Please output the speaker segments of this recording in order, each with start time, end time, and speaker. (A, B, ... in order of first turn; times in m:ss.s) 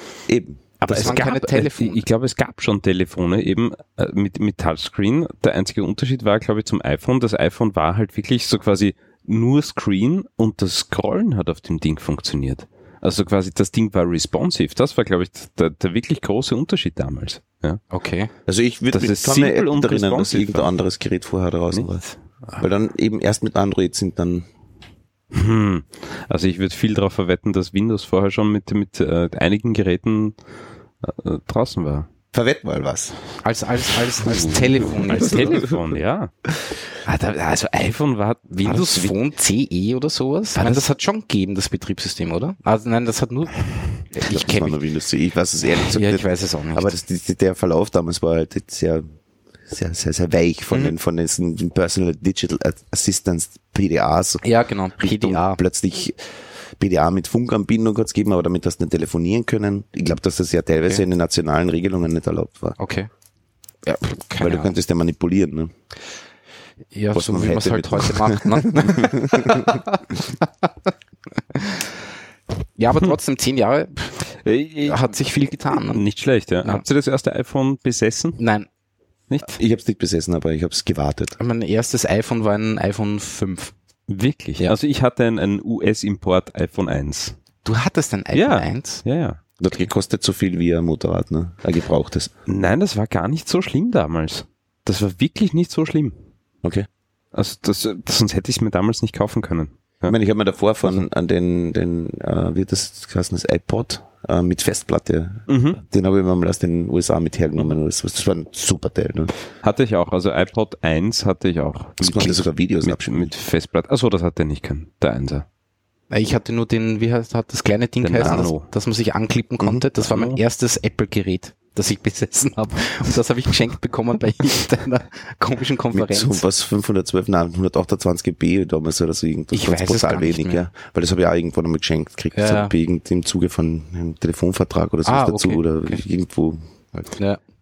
0:00.3-0:01.2 A
0:00.8-0:17.8 B
0:00.9-0:02.0 C
0:17.9-0:18.3 C
0:18.5-0:22.0 A
0:18.9-0:20.7 B
0:21.7-0:22.6 B
0:22.6-0:24.5 A
0:25.3-0:30.4 B
0:31.0-0:32.1 B
0:32.3-0:33.2 A
0:33.4-0:35.6 C
0:34.2-0:39.2 B
0:38.5-0:44.8 C
0:40.6-0:40.8 B
0:44.2-0:49.1 A
0:45.8-0:47.0 C
0:49.7-0:54.4 A
0:54.4-0:55.6 C
0:55.0-1:02.8 A
1:02.8-1:03.1 C
1:03.8-1:04.8 C
1:04.4-1:05.7 A
1:06.9-1:10.0 C
1:07.1-1:09.8 A
1:11.5-1:11.8 C
1:12.8-1:14.2 C
1:14.4-1:15.2 B
1:14.8-1:16.1 C
1:15.7-1:18.4 B
1:18.4-1:18.7 C
1:19.3-1:19.6 B
1:19.4-1:21.4 A
1:21.4-1:23.7 C
1:24.1-1:27.4 B
1:27.6-1:29.0 C
1:28.3-1:29.4 B
1:29.6-1:32.3 A
1:32.5-1:36.2 B
1:37.3-1:40.1 B
1:40.1-1:49.3 A
1:45.5-1:45.8 B
1:49.6-1:55.5 B
1:52.0-1:53.3 A
1:56.1-2:06.4 C
1:58.0-1:58.7 B
1:58.2-1:58.5 A
2:00.0-2:00.4 B
2:05.9-2:17.1 A
2:09.5-2:10.6 C
2:12.3-2:12.7 C
2:15.0-2:16.0 C
2:17.2-2:17.4 C